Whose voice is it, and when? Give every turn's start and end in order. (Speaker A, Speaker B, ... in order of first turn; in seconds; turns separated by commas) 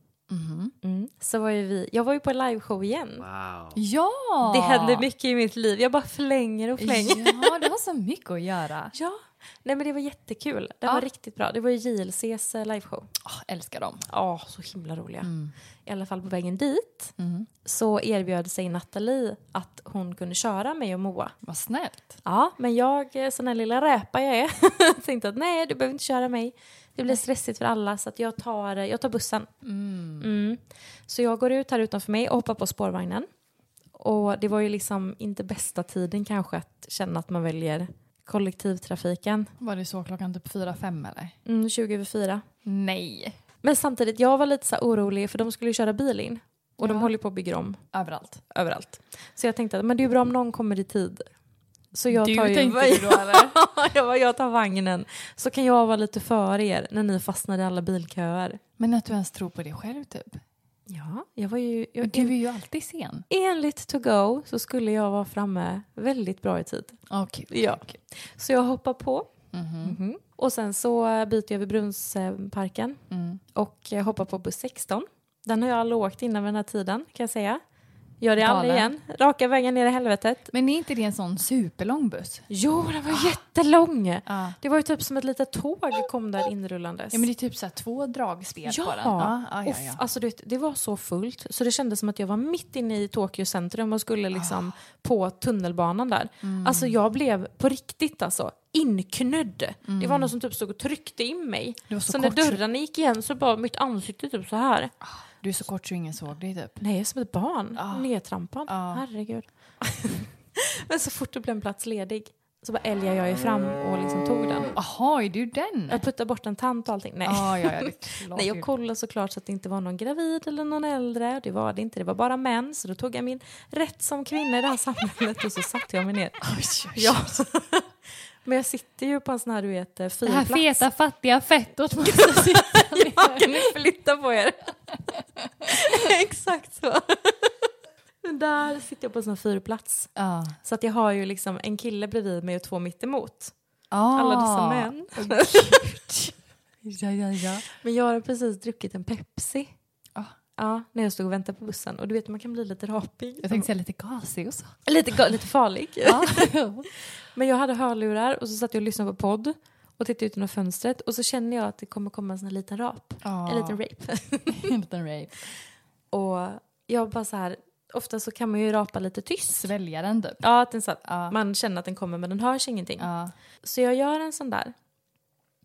Speaker A: 0.3-0.7, Speaker B: 0.8-3.3, Speaker A: 3.8-5.1, Speaker B: 4.4-7.6, Speaker A: 6.8-8.9, Speaker B: 8.9-13.1, Speaker A: 13.2-14.1, Speaker B: 14.1-15.3, Speaker A: 15.2-15.5, Speaker B: 15.9-17.1, Speaker A: 17.2-17.5, Speaker B: 17.6-21.3, Speaker A: 21.4-22.2, Speaker B: 22.2-29.5, Speaker A: 29.6-30.3, Speaker B: 30.2-33.3, Speaker B: 34.0-39.5, Speaker A: 39.6-41.4, Speaker B: 41.5-42.4, Speaker A: 42.6-43.4, Speaker B: 43.6-47.8, Speaker A: 46.8-47.1, Speaker A: 47.9-48.4, Speaker B: 48.5-51.3, Speaker B: 51.9-58.6, Speaker A: 52.1-53.5, Speaker A: 58.8-60.4, Speaker B: 60.9-62.4, Speaker A: 62.0-63.3, Speaker B: 63.3-69.3, Speaker A: 67.1-68.0, Speaker A: 69.5-70.0, Speaker B: 69.8-73.0, Speaker A: 73.1-73.4, Speaker B: 73.5-77.6, Speaker B: 78.2-80.5, Speaker A: 78.4-78.9, Speaker A: 80.5-82.5, Speaker B: 82.5-87.2, Speaker A: 83.1-83.4, Speaker A: 84.3-84.6, Speaker A: 87.1-90.0, Speaker B: 88.7-104.9, Speaker A: 94.3-94.7, Speaker A: 96.4-97.0, Speaker A: 99.9-100.3, Speaker A: 101.9-102.6, Speaker A: 105.0-106.8, Speaker B: 106.8-114.7, Speaker A: 107.8-108.1, Speaker A: 108.7-109.0, Speaker A: 114.8-116.0, Speaker B: 115.9-127.9, Speaker A: 117.2-118.7, Speaker A: 126.4-127.4, Speaker B: 128.4-130.8, Speaker A: 130.2-133.8, Speaker B: 132.1-134.7, Speaker A: 135.1-135.7, Speaker B: 135.7-137.5, Speaker B: 138.2-140.1, Speaker A: 140.2-140.6, Speaker B: 140.6-143.5, Speaker A: 143.9-146.2, Speaker B: 144.2-146.3, Speaker A: 146.8-147.7, Speaker B: 147.7-149.7, Speaker B: 150.6-153.7, Speaker A: 153.4-154.7, Speaker B: 154.9-156.5, Speaker A: 156.0-156.9, Speaker B: 157.2-164.7, Speaker A: 163.2-163.8, Speaker A: 164.5-165.5, Speaker B: 166.1-169.7, Speaker A: 169.5-170.4, Speaker B: 170.4-173.1, Speaker A: 171.0-171.4, Speaker A: 173.0-173.3, Speaker B: 173.6-174.8